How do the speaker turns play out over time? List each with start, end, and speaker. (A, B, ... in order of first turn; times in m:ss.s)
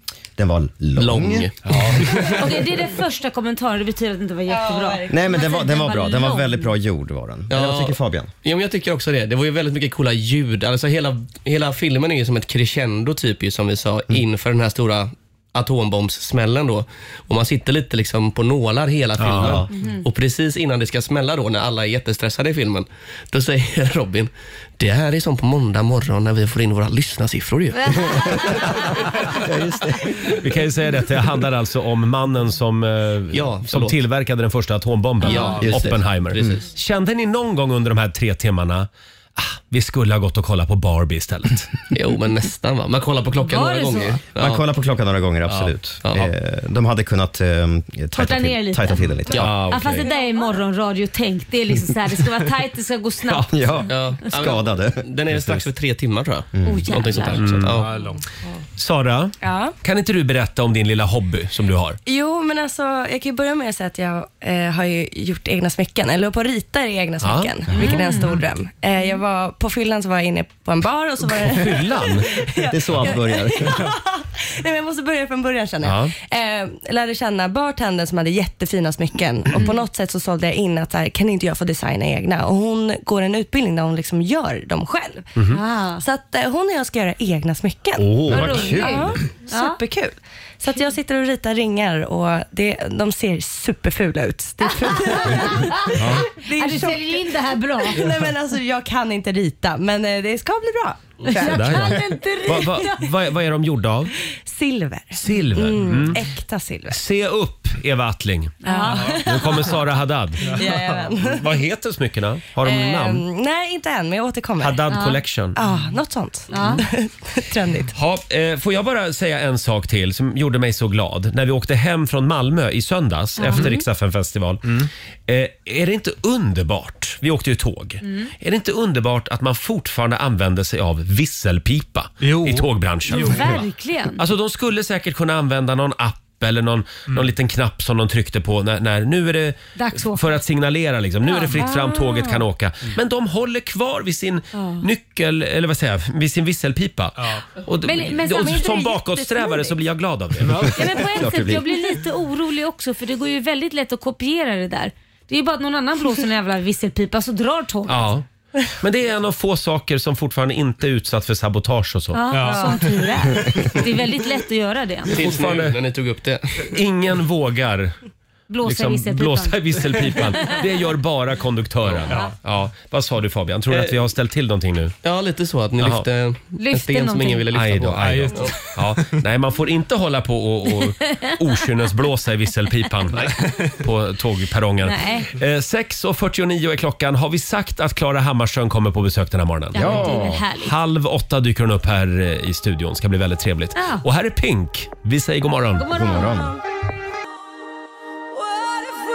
0:00.4-0:01.5 A
0:01.0-0:02.3 B
0:02.2-0:06.7 C
0:04.5-0:05.5 D
0:05.1-0:08.3 A
0:07.5-0:28.5 B
0:19.2-0:19.6 E
0:19.4-0:19.7 A
0:19.8-0:20.0 C
0:27.8-0:28.5 C
0:29.4-0:30.0 A
0:30.4-0:41.7 E
0:33.3-0:34.0 B
0:35.2-0:35.6 C
0:35.2-0:36.6 B
0:35.3-0:36.6 A
0:41.9-0:44.6 B
0:43.4-0:44.2 C
0:44.4-0:49.6 A
0:45.5-0:46.3 B
0:48.1-0:53.8 C
0:49.4-0:50.1 E
0:50.1-0:50.5 D
0:53.5-0:55.4 A
0:53.9-0:57.9 B
0:56.5-0:57.5 A
0:56.6-0:57.4 C
0:57.4-0:57.8 E
0:57.8-0:58.2 F
0:58.8-1:02.0 E
0:59.4-0:59.8 D
1:02.1-1:25.3 D
1:07.2-1:08.0 E
1:07.8-1:08.4 C
1:11.3-1:12.3 E
1:12.7-1:13.9 A
1:15.8-1:16.1 E
1:25.5-1:26.0 C
1:26.0-1:37.3 D
1:28.0-1:28.8 E
1:28.3-1:29.1 A
1:28.3-1:29.8 C
1:34.9-1:35.9 C
1:36.5-1:38.0 C
1:37.8-1:42.0 D
1:41.3-1:43.1 C
1:41.3-1:44.1 E
1:44.5-1:47.0 D
1:45.2-1:46.2 E
1:46.9-1:53.2 E
1:48.6-1:49.2 C
1:48.6-1:49.7 D
1:50.5-1:51.5 D
1:50.6-1:51.0 F
1:52.6-1:54.8 D
1:54.6-1:55.6 E
1:54.9-1:55.2 C
1:55.6-1:57.9 D
1:56.5-1:56.8 C
1:57.9-2:13.6 E
2:03.4-2:03.8 C
2:08.0-2:08.3 C
2:12.2-2:13.6 F
2:13.1-2:14.2 C
2:14.2-2:31.6 E
2:19.8-2:20.4 C
2:21.2-2:22.3 C
2:21.6-2:22.0 D
2:24.5-2:24.8 C
2:27.2-2:27.4 F
2:27.8-2:29.8 C
2:30.4-2:30.9 F
2:30.7-2:38.1 C
2:37.9-2:38.2 E
2:38.8-2:42.2 E
2:42.1-2:45.2 C
2:42.3-2:43.4 F
2:42.5-2:42.8 D
2:45.1-2:46.7 B
2:45.2-2:45.8 E
2:46.6-2:48.0 E
2:48.5-2:50.6 C
2:48.6-2:55.0 E
2:52.1-2:52.4 F
2:53.7-2:54.0 B
2:55.0-2:58.6 B
2:55.8-2:56.1 E
2:56.6-2:57.5 C
2:57.5-3:15.9 E
2:58.0-2:59.1 F
3:01.1-3:01.4 C
3:03.2-3:03.7 F
3:04.8-3:05.3 C
3:09.7-3:10.4 A
3:09.7-3:10.7 C
3:13.8-3:14.0 C
3:15.8-3:16.6 C
3:15.9-3:16.6 A